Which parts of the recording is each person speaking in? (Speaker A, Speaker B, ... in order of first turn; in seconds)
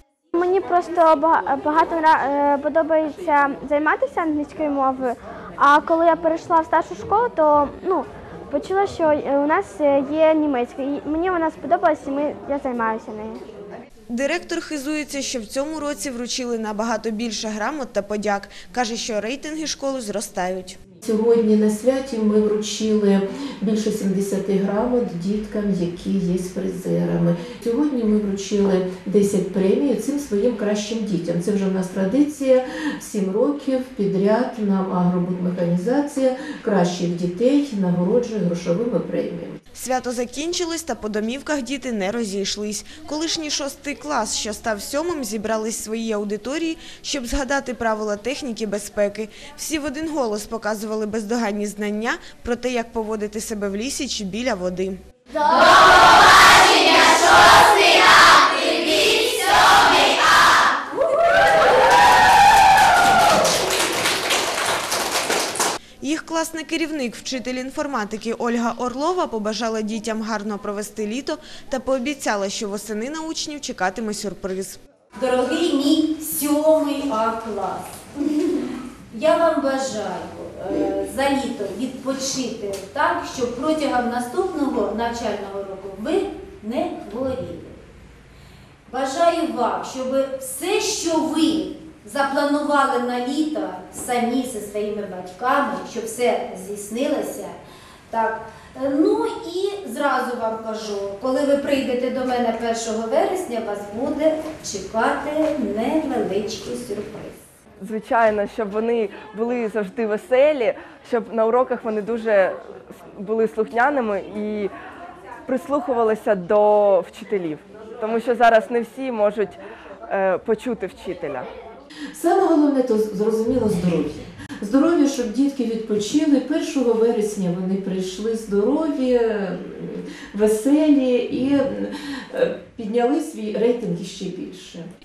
Speaker A: 0.3-13.4
Speaker B: 14.1-20.8, 39.8-55.0, 66.0-74.8
Speaker C: 21.0-39.6, 122.2-134.9
Speaker D: 75.2-78.4, 79.1-87.8, 88.9-97.6, 98.1-107.4
Speaker E: 107.8-112.6, 113.2-114.7, 115.5-121.5